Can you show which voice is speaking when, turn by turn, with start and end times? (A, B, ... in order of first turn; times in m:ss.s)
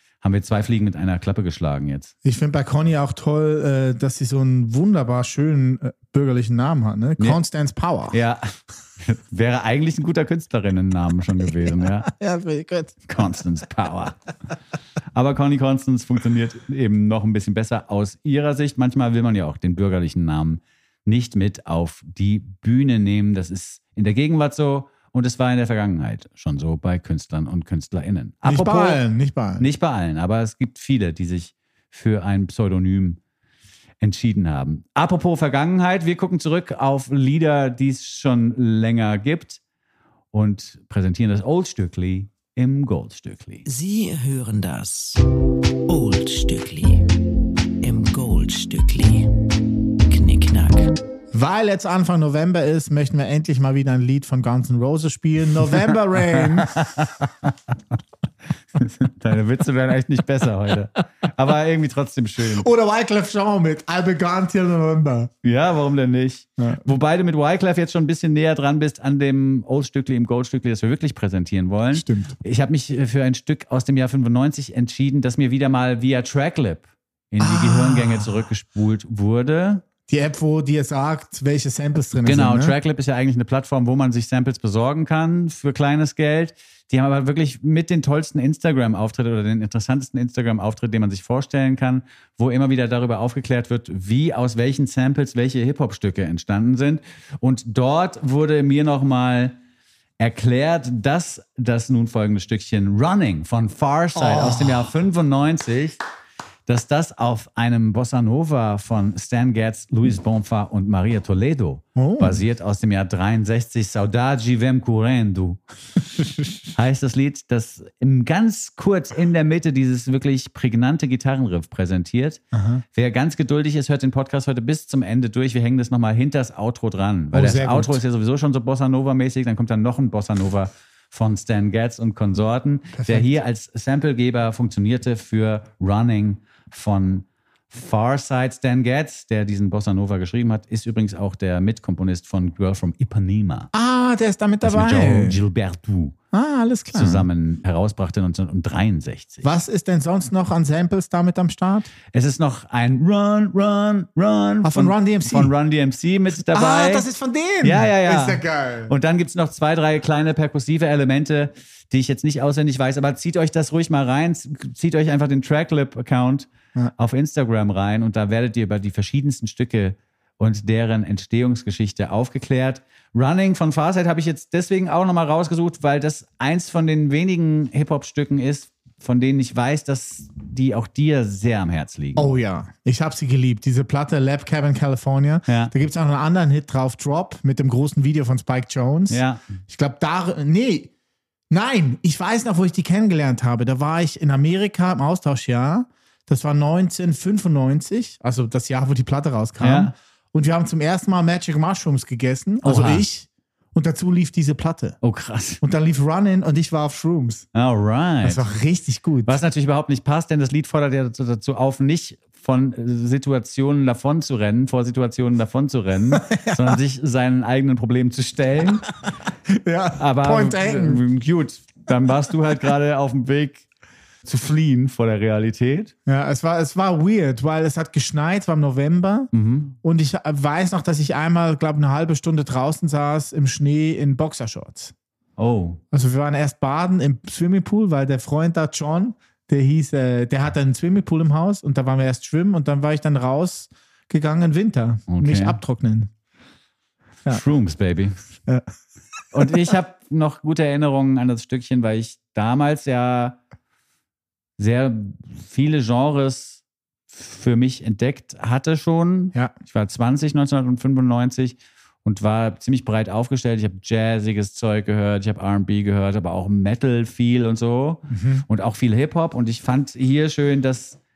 0:00.2-0:02.1 A
0:02.2-0:08.2 B
0:08.1-0:12.1 A
0:12.0-0:13.1 B
0:13.1-0:14.2 A
0:15.1-0:29.0 A
0:28.4-0:29.7 B
0:29.6-0:33.2 A
0:34.0-0:39.6 A
0:40.3-0:43.6 A
0:43.7-0:45.2 C
0:45.9-0:47.1 C
0:47.8-0:49.3 C
0:50.1-0:51.0 C
0:51.3-0:57.0 B
0:56.3-0:57.2 A
0:58.8-1:02.7 A
1:02.6-1:05.3 B
1:05.4-1:19.8 A
1:11.9-1:12.3 B
1:17.4-1:18.5 B
1:20.1-1:22.8 B
1:22.2-1:39.6 A
1:40.2-1:46.0 A
1:44.2-1:44.9 B
1:46.7-1:55.6 A
1:52.0-1:52.4 B
1:56.7-2:02.4 A
2:02.5-2:02.8 B
2:03.0-2:23.7 A
2:07.3-2:08.0 B
2:12.9-2:13.3 B
2:23.7-2:25.4 B
2:24.6-2:26.2 A
2:26.3-2:27.3 B
2:26.9-2:29.5 A
2:29.4-2:31.9 B
2:32.1-2:37.1 A
2:34.6-2:35.5 B
2:36.5-2:38.9 B
2:37.6-3:02.3 A
3:02.2-3:10.9 B
3:05.5-3:05.7 A
3:09.1-3:09.4 A
3:11.5-3:25.0 B
3:19.6-3:19.9 A
3:22.6-3:23.1 A
3:25.0-3:25.6 A
3:25.6-3:27.5 B
3:27.5-3:28.4 A
3:28.2-3:29.4 B
3:29.3-3:38.9 A
3:36.1-3:36.8 B
3:39.6-3:41.0 B
3:40.0-3:43.7 A
3:44.2-3:45.9 A
3:46.1-3:49.3 B
3:49.3-3:49.8 A
3:49.8-3:54.9 B
3:55.4-3:55.8 A
3:55.9-4:06.1 B
4:05.1-4:05.6 A
4:07.3-4:08.2 A
4:09.3-4:13.4 A
4:14.6-4:31.0 A
4:28.1-4:28.4 B